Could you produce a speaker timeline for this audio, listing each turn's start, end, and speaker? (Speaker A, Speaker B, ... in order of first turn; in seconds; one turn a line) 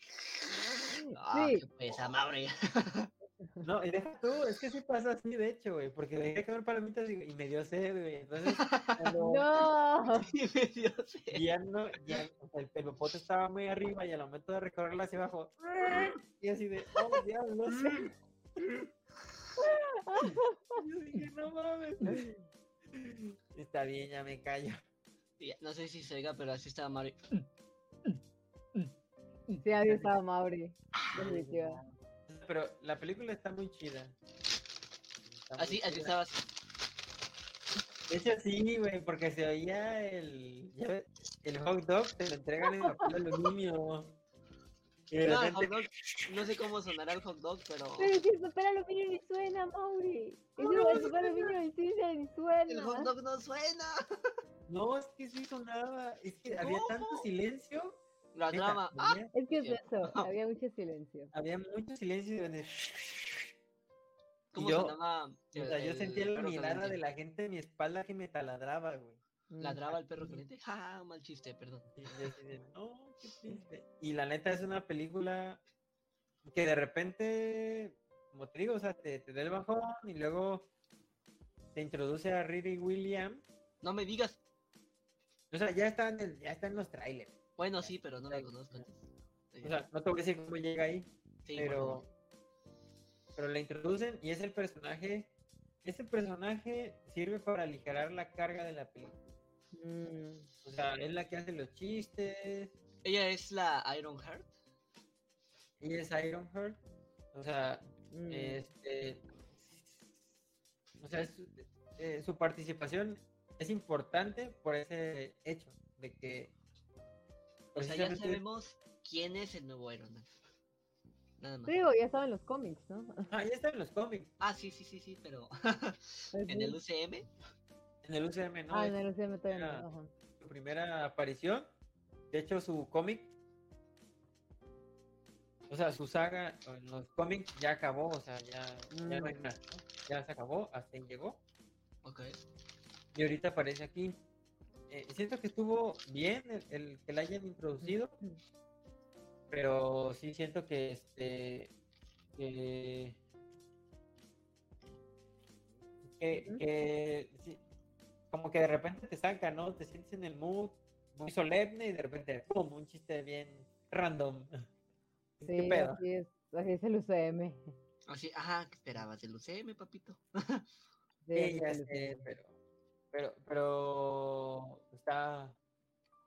Speaker A: 0.3-3.1
Speaker B: 1.0-1.6
Speaker C: 3.6-9.5
Speaker A: 8.5-9.1
Speaker B: 9.2-10.3
Speaker A: 10.2-11.4
Speaker C: 11.3-18.1
Speaker A: 18.6-18.9
Speaker B: 19.6-20.8
Speaker C: 20.8-22.3
Speaker C: 22.9-24.8
Speaker A: 25.4-27.4
Speaker B: 29.6-31.8
Speaker C: 29.8-30.1
Speaker C: 31.1-34.1
Speaker C: 35.3-36.1
Speaker A: 35.6-36.5
Speaker C: 38.1-44.2
Speaker C: 45.1-46.6
Speaker A: 45.2-48.1
Speaker B: 48.0-53.1
Speaker C: 50.6-51.2
Speaker A: 50.7-51.5
Speaker A: 52.7-54.0
Speaker C: 54.7-59.3
Speaker A: 56.6-57.2
Speaker A: 58.3-60.3
Speaker B: 59.3-61.3
Speaker C: 61.3-63.5
Speaker A: 64.5-67.0
Speaker C: 64.5-65.0
Speaker C: 65.5-69.2
Speaker B: 69.5-70.4
Speaker A: 69.6-72.1
Speaker C: 72.0-75.6
Speaker C: 76.4-80.7
Speaker C: 81.7-83.4
Speaker A: 83.8-84.4
Speaker C: 85.5-88.9
Speaker A: 87.6-89.8
Speaker C: 89.6-92.0
Speaker A: 91.4-92.0
Speaker C: 93.3-95.3
Speaker C: 95.8-99.3
Speaker B: 99.7-100.5
Speaker C: 100.6-102.7
Speaker A: 103.0-104.5
Speaker C: 105.8-106.8
Speaker C: 107.3-110.0
Speaker B: 108.1-108.6
Speaker C: 111.0-116.5
Speaker C: 117.7-118.4
Speaker A: 117.8-120.3
Speaker A: 121.4-121.8
Speaker B: 121.7-123.3
Speaker C: 123.3-124.3
Speaker A: 124.4-127.3
Speaker B: 126.3-126.8
Speaker C: 128.0-128.9
Speaker B: 128.7-130.1
Speaker C: 129.5-129.8
Speaker C: 130.4-131.7
Speaker C: 132.3-133.3
Speaker C: 135.7-141.4
Speaker B: 138.9-139.4
Speaker A: 142.0-142.4
Speaker C: 143.1-144.2
Speaker C: 144.9-148.1
Speaker B: 147.8-148.4
Speaker C: 149.5-151.7
Speaker C: 152.3-153.2
Speaker C: 156.1-157.6
Speaker B: 156.3-156.6
Speaker C: 158.3-164.6
Speaker C: 165.4-166.0
Speaker B: 165.4-167.7
Speaker A: 168.1-170.6
Speaker B: 171.2-172.3
Speaker C: 171.3-172.5
Speaker C: 173.1-175.6